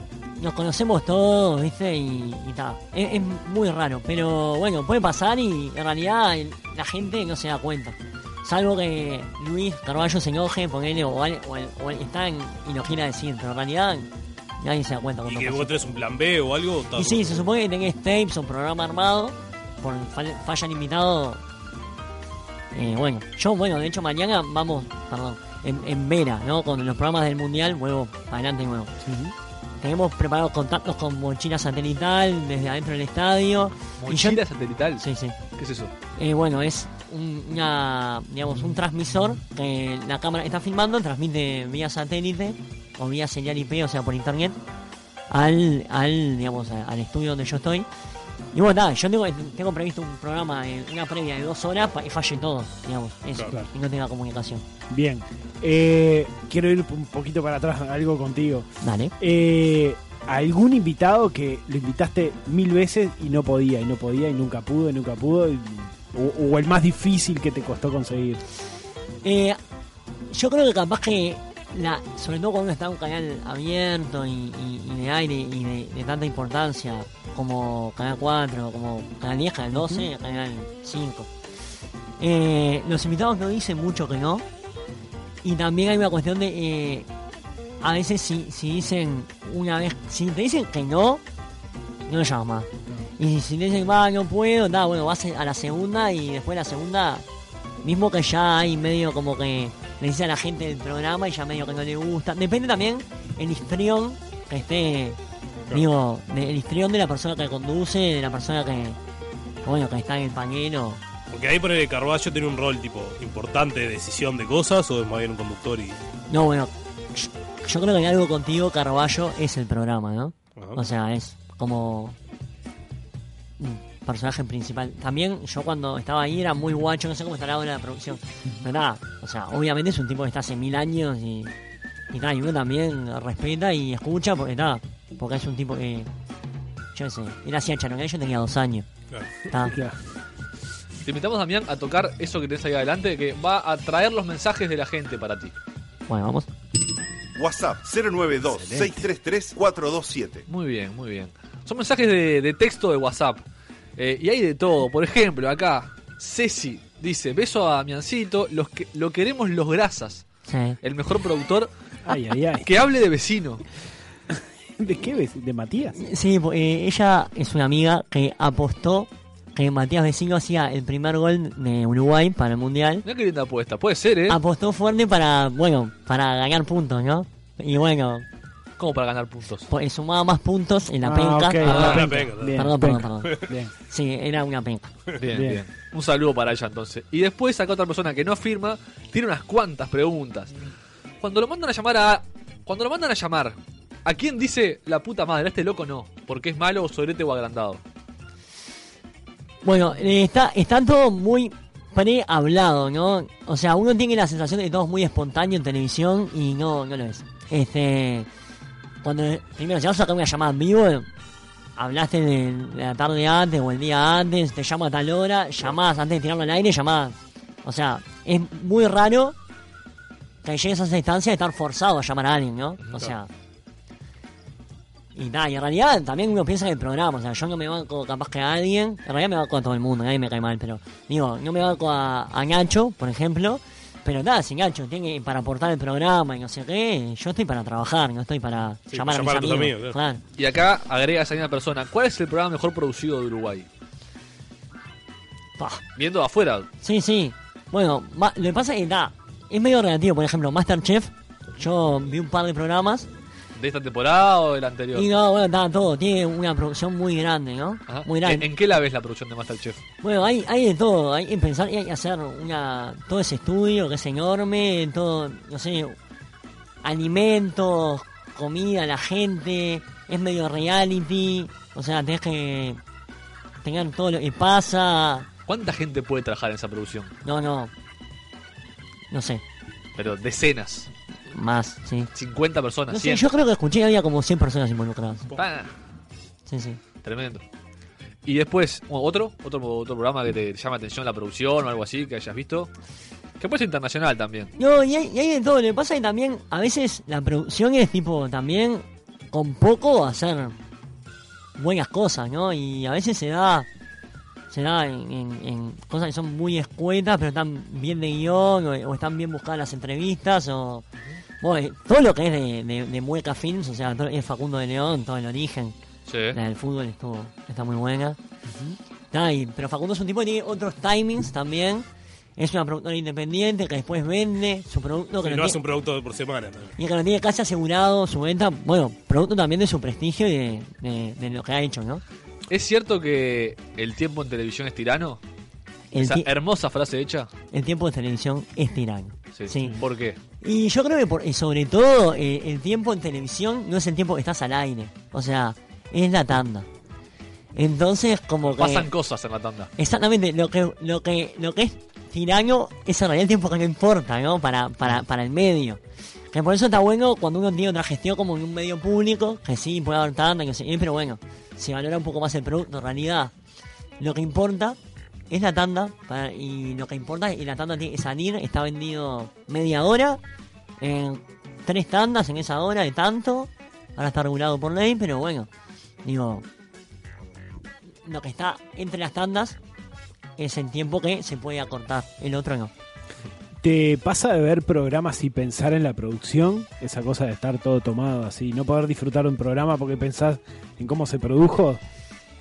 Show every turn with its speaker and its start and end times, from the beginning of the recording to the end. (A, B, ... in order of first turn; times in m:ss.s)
0:00.4-0:14.1 A
0:14.6-0:15.7 A
0:15.2-0:17.5 B
0:17.0-0:21.4 A
0:22.7-0:28.9 A
0:29.0-0:29.3 C
0:29.8-0:34.4 A
0:34.0-0:35.0 D
0:35.0-0:35.4 A
0:35.6-0:35.9 D
0:36.2-0:44.6 A
0:45.3-0:47.9 A
0:48.5-0:54.6 A
0:54.9-0:58.7 C
0:58.8-0:59.1 A
0:59.2-1:08.4 C
1:09.2-1:09.6 A
1:10.3-1:21.3 A
1:19.8-1:20.1 C
1:22.2-1:24.4 A
1:25.4-1:27.1 A
1:27.8-1:31.2 A
1:32.1-1:37.2 A
1:37.8-1:45.2 A
1:45.7-1:49.0 A
1:49.6-1:51.0 A
1:51.3-1:56.0 B
1:56.3-2:02.2 A
2:00.6-2:00.8 B
2:03.6-2:11.5 A
2:12.1-2:16.1 A
2:16.9-2:18.9 A
2:19.1-2:19.4 B
2:19.5-2:19.8 A
2:19.6-2:20.0 C
2:21.0-2:25.5 D
2:26.1-2:26.5 A
2:27.4-2:30.5 E
2:28.6-2:29.0 C
2:30.5-2:33.4 D
2:34.0-2:40.2 D
2:40.5-2:40.8 A
2:40.8-2:41.7 D
2:42.1-2:42.7 C
2:42.6-2:43.6 D
2:44.8-2:46.0 C
2:46.0-2:53.0 A
2:53.0-2:54.4 D
2:54.3-2:58.2 A
2:58.8-2:59.7 D
2:59.7-3:03.3 A
3:01.0-3:03.7 C
3:01.6-3:02.6 B
3:01.6-3:02.1 D
3:03.9-3:04.9 A
3:05.2-3:10.5 D
3:05.3-3:05.6 C
3:11.2-3:17.8 D
3:19.6-3:28.3 A
3:29.0-3:31.1 A
3:31.8-3:39.4 A
3:40.4-3:43.3 A
3:45.2-4:00.2 A
3:58.9-4:00.0 B
4:00.4-4:03.7 D
4:05.6-4:05.8 A
4:06.0-4:06.7 D
4:06.8-4:13.1 A
4:13.6-4:15.1 D
4:14.9-4:18.5 A
4:17.9-4:19.8 D
4:20.0-4:26.0 A
4:26.8-4:32.8 A
4:33.6-4:35.3 A
4:35.5-4:37.1 D
4:37.2-4:37.7 A
4:39.1-4:39.4 A
4:40.0-4:40.9 D
4:41.3-4:42.1 A
4:42.1-4:43.2 D
4:42.9-4:45.3 A
4:45.3-4:45.7 D
4:46.5-4:46.8 A
4:47.0-4:47.4 D
4:48.2-4:52.7 D
4:53.4-4:54.5 D
4:54.6-5:00.5 A
5:01.6-5:03.7 A
5:04.5-5:10.8 A
5:11.4-5:15.7 A
5:16.1-5:16.4 D
5:16.3-5:18.2 A
5:18.5-5:18.8 C
5:19.1-5:21.8 A
5:22.4-5:25.6 A
5:25.2-5:26.7 B
5:26.8-5:32.0 A
5:32.5-5:35.2 D
5:35.9-5:36.3 A
5:36.0-5:37.3 D
5:37.5-5:39.8 A
5:39.3-5:40.2 D
5:40.4-5:46.7 A
5:47.6-5:48.9 A
5:48.4-5:49.7 D
5:49.8-5:55.8 A
5:56.3-6:03.3 A
6:04.0-6:04.8 A
6:05.3-6:10.2 A
6:10.8-6:15.5 A
6:16.0-6:16.4 A
6:18.0-6:19.6 A
6:20.4-6:22.7 A
6:23.6-6:31.8 C